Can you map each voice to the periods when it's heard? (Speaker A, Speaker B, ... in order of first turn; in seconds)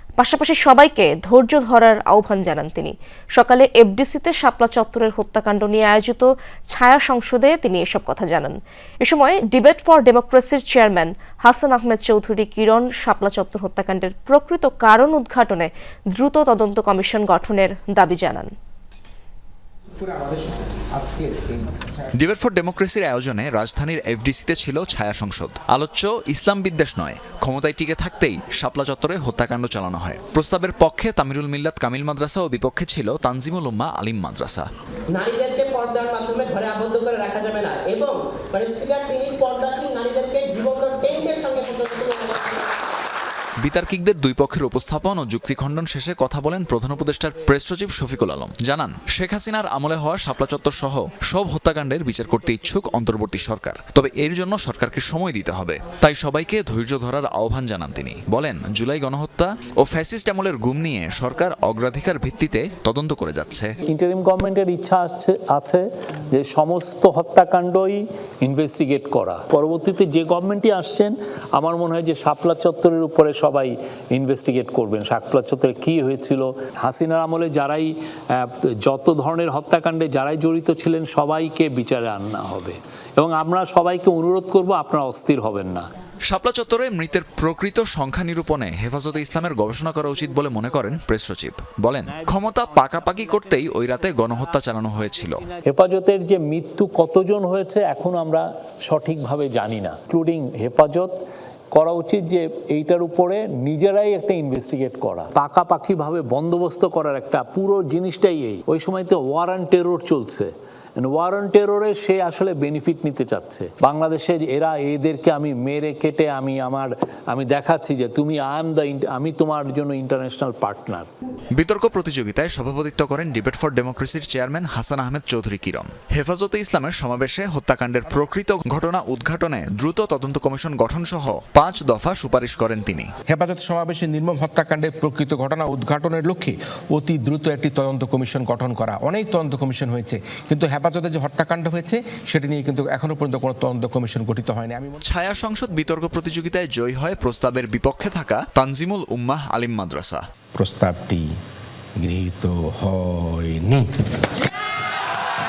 Speaker A: 0.2-18.5
Speaker B: 20.0-21.9, 133.3-145.1, 150.6-151.3, 152.0-153.9
Speaker C: 22.2-34.7, 43.6-63.7, 86.3-95.5, 121.6-133.1, 145.1-150.2
Speaker D: 35.1-42.7
Speaker E: 63.9-85.9, 95.5-101.1, 101.7-121.1